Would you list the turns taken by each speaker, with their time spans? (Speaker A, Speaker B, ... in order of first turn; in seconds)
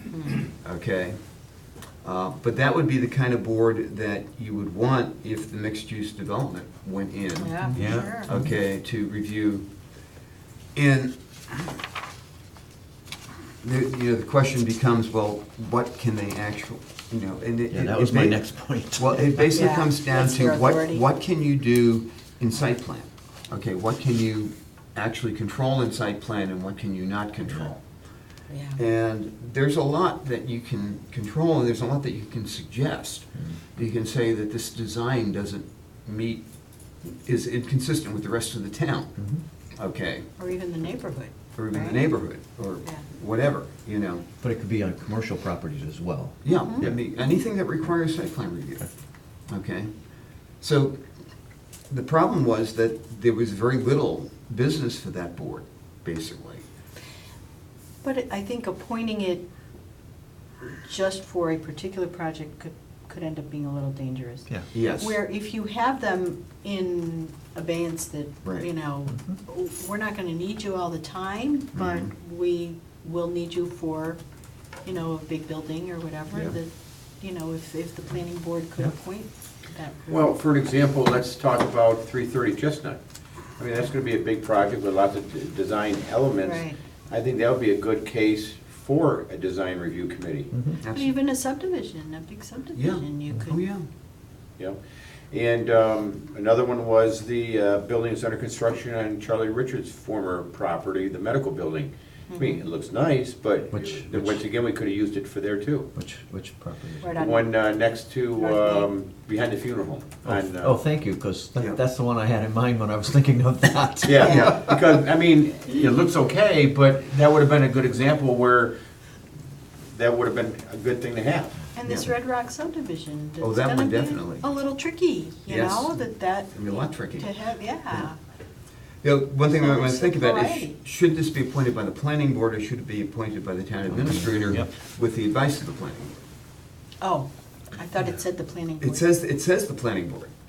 Speaker A: 0.3-1.1, 2.0-9.7, 10.7-11.8, 13.6-18.4, 18.9-27.8, 28.8-36.5, 37.0-39.2, 39.8-40.2, 41.5-44.2, 46.4-48.9, 49.5-49.9, 50.6-51.0, 51.9-56.6, 64.7-65.2, 71.8-72.1, 90.8-91.1, 92.8-93.8, 114.2-114.6, 121.8-122.2, 123.4-124.5, 125.5-127.3, 129.0-136.1, 138.8-140.3
Speaker B: 7.4-8.3, 19.5-21.0, 28.5-28.8, 40.4-42.0, 46.5-46.8, 58.0-59.5, 60.6-74.2, 74.8-76.7, 77.2-80.3, 86.4-86.8, 90.8-93.6, 102.3-102.6, 107.0-107.6, 108.4-108.9, 114.2-114.6, 121.8-128.2, 129.5-130.8, 137.0-139.0
Speaker C: 7.7-8.5, 17.7-19.5, 44.4-47.0, 69.1-69.4, 90.5-90.8, 103.7-104.4, 105.9-107.1, 110.2-114.4, 133.9-134.7
Speaker D: 7.8-8.1, 80.1-83.0, 83.6-90.5, 95.3-105.9, 107.2-110.8, 114.0-118.7, 119.9-121.6